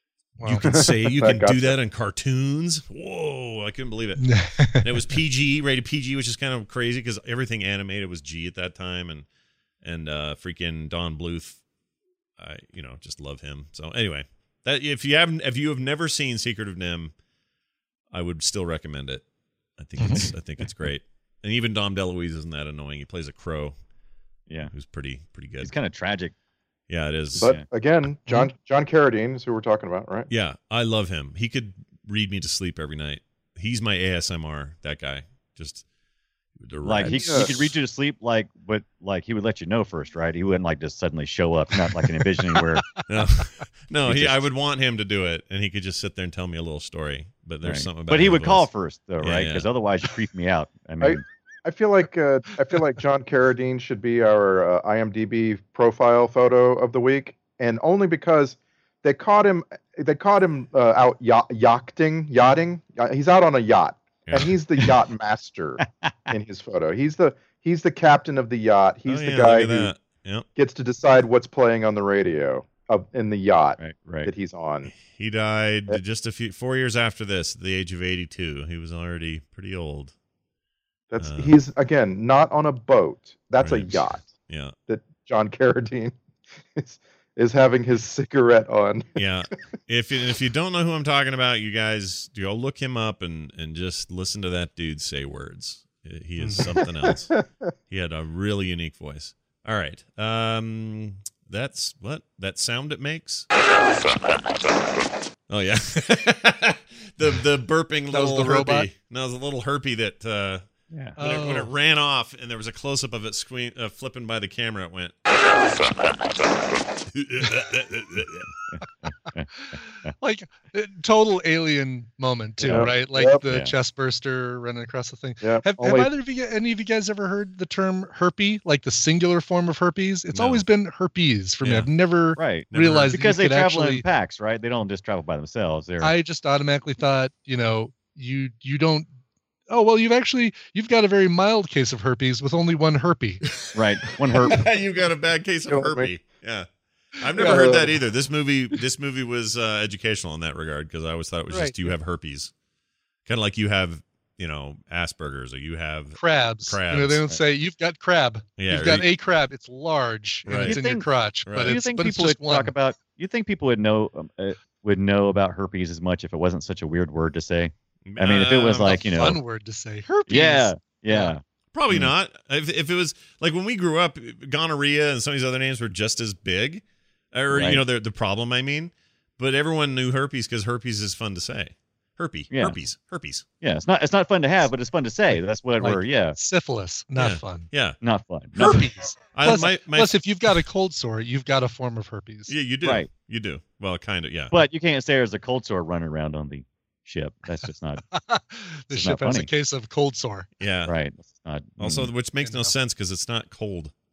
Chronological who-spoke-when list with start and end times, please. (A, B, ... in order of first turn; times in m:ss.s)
0:00.4-0:00.7 A
0:00.4-0:04.2 B
0:00.6-0:01.8 C
0:04.2-0:04.9 A
0:04.8-0:09.2 B
0:09.8-0:11.6 B
0:12.4-0:17.1 B
0:18.1-0:19.2 B
0:19.8-0:23.7 B
0:20.0-0:20.3 A
0:24.7-0:25.7 B
0:25.6-0:26.3 D
0:26.9-0:27.5 B
0:27.3-0:30.3 C
0:30.3-0:35.8 B
0:36.6-0:37.7 B
0:36.8-0:42.8 D
0:37.1-0:37.5 C
0:43.1-0:48.7 B
0:44.0-0:44.4 D
0:47.6-0:51.2 D
0:49.2-0:49.7 B
0:51.0-1:09.9 C
1:04.3-1:04.5 B
1:09.1-1:10.4 B
1:10.6-1:14.9 C
1:13.8-1:14.3 D
1:14.9-1:20.1 B
1:21.1-1:24.3 C
1:21.2-1:21.5 B
1:23.6-1:24.7 B
1:24.9-1:26.1 C
1:26.7-1:29.2 C
1:29.2-1:37.3 B
1:36.4-1:36.6 A
1:37.0-1:37.4 C
1:37.9-1:43.5 B
1:45.5-1:50.6 B
1:48.1-1:48.9 A
1:50.9-1:51.2 D
1:51.2-1:51.7 A
1:51.2-1:55.1 B
1:57.1-1:58.5 B
1:58.7-1:59.5 D
1:59.6-2:14.0 A
2:02.6-2:03.4 C
2:02.6-2:02.9 D
2:03.4-2:03.7 D
2:05.4-2:06.1 C
2:10.3-2:10.6 B
2:11.6-2:11.9 B
2:12.4-2:16.1 D
2:12.7-2:13.1 B
2:16.0-2:19.1 A
2:19.7-2:23.4 A
2:23.7-2:24.6 D
2:24.4-2:26.7 B
2:25.7-2:26.1 C
2:27.2-2:32.5 B
2:27.3-2:27.7 A
2:27.4-2:28.0 C
2:31.5-2:31.9 A
2:33.2-2:37.2 B
2:36.2-2:42.7 A
2:38.6-2:39.0 B
2:40.4-2:40.7 B
2:40.6-2:49.4 D
2:41.4-2:41.8 B
2:48.0-2:49.3 B
2:48.9-2:51.3 A
2:50.3-2:52.1 D
2:51.7-3:03.4 B
2:57.5-2:57.8 D
3:02.5-3:02.8 D
3:03.6-3:06.4 D
3:05.8-3:07.7 A
3:07.2-3:08.0 B
3:08.0-3:08.8 D
3:08.6-3:12.5 A
3:09.3-3:10.1 B
3:12.5-3:14.5 B
3:12.8-3:13.1 D
3:14.5-3:18.0 D
3:18.1-3:20.5 A
3:18.9-3:19.5 D
3:20.6-3:20.9 B
3:20.8-3:22.1 D
3:21.8-3:23.9 B
3:22.4-3:22.7 A